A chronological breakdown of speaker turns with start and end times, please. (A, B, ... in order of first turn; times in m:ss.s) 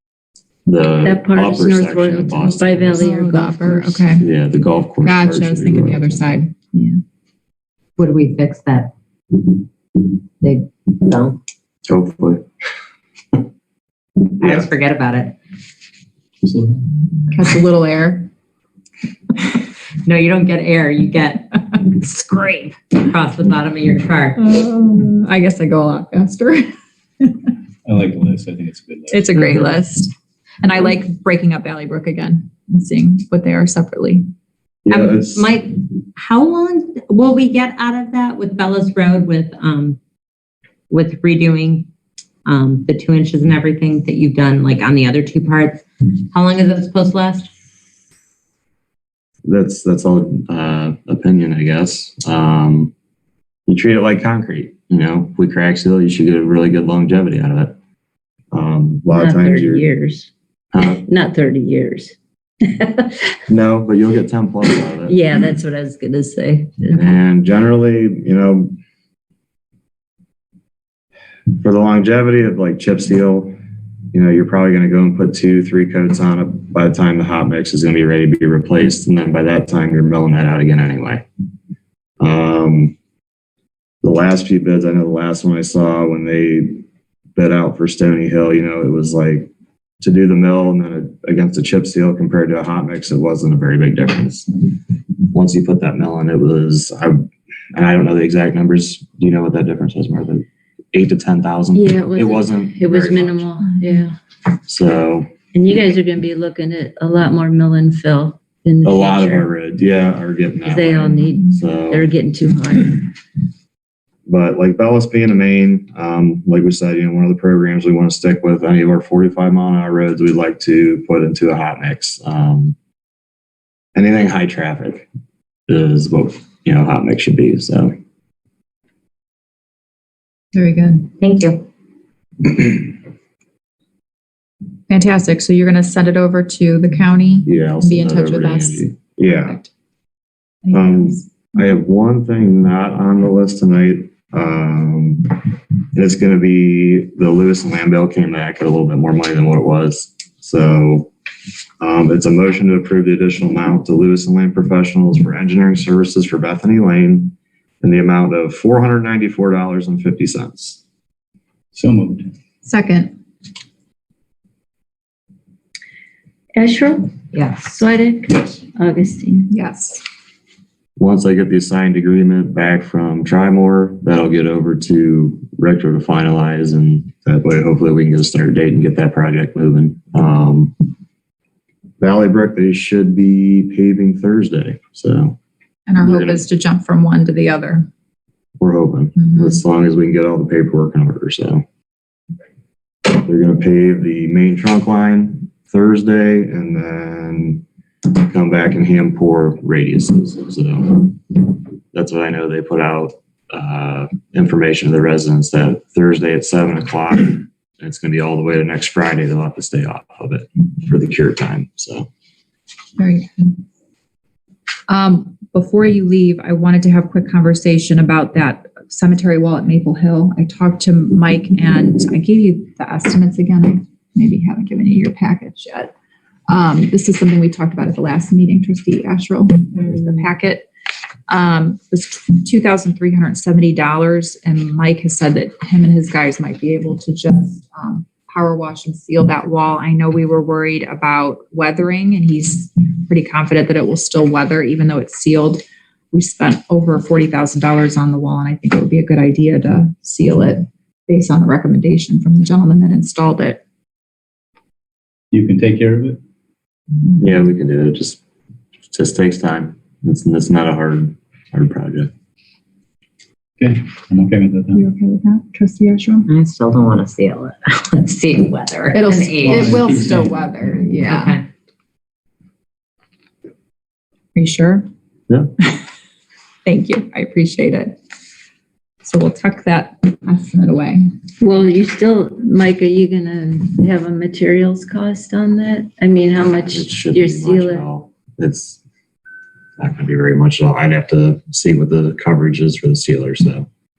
0:00.7-0:03.1 A
0:01.0-0:04.1 B
0:03.0-0:04.3 C
0:04.2-0:06.3 A
0:05.0-0:06.5 C
0:08.0-0:08.9 D
0:10.4-0:11.4 D
0:11.9-0:12.5 A
0:14.4-0:15.4 D
0:14.4-0:14.7 A
0:16.4-0:16.8 E
0:17.3-0:18.3 C
0:20.0-0:24.4 D
0:24.4-0:27.4 C
0:27.8-0:29.8 E
0:29.1-0:34.2 C
0:34.8-0:35.4 A
0:34.9-0:40.0 D
0:40.9-0:41.9 D
0:42.4-0:47.5 D
0:49.4-0:52.9 A
0:53.7-0:57.8 A
0:58.5-0:59.9 A
0:59.1-1:00.3 B
1:00.7-1:01.0 A
1:00.8-1:03.2 B
1:03.5-1:05.2 A
1:05.1-1:07.2 B
1:06.9-1:08.8 A
1:11.6-1:13.6 A
1:14.1-1:21.2 A
1:22.2-1:23.0 A
1:24.0-1:26.8 A
1:27.4-1:29.5 A
1:30.0-1:34.5 A
1:35.3-1:43.5 A
1:41.7-1:44.1 B
1:44.7-1:45.3 A
1:45.5-1:49.5 B
1:48.8-1:52.0 A
1:50.6-1:53.1 B
1:54.2-2:02.8 A
2:03.9-2:05.1 A
2:05.7-2:07.9 A
2:10.5-2:11.1 C
2:11.2-2:11.6 D
2:14.9-2:19.7 C
2:17.4-2:19.6 A
2:20.6-2:21.3 C
2:20.7-2:25.4 A
2:25.9-2:31.1 A
2:31.8-2:40.8 A
2:41.7-2:42.3 E
2:42.6-2:43.1 C
2:46.6-2:49.5 B
2:47.3-2:47.7 D
2:48.3-2:48.6 E
2:49.5-2:50.0 C
2:51.0-3:00.7 A
3:02.0-3:05.4 A
3:05.9-3:07.9 C
3:06.0-3:06.4 A
3:08.6-3:11.6 A
3:09.2-3:09.6 C
3:13.1-3:17.6 A
3:18.2-3:32.1 A
3:33.0-3:33.6 C
3:34.9-3:45.9 C
3:46.5-3:50.7 C
3:51.3-4:13.6 C
4:15.3-4:16.2 E
4:17.2-4:18.2 A
4:18.9-4:22.1 A
4:23.6-4:24.8 E
4:24.7-4:26.3 C
4:26.3-4:29.8 D
4:28.9-4:31.4 C
4:29.4-4:30.3 E
4:31.0-4:31.4 D
4:34.4-4:34.9 C
4:36.6-4:38.0 C
4:39.0-4:41.0 C
4:41.4-4:47.9 B
4:46.4-4:48.8 A
4:49.8-4:53.7 A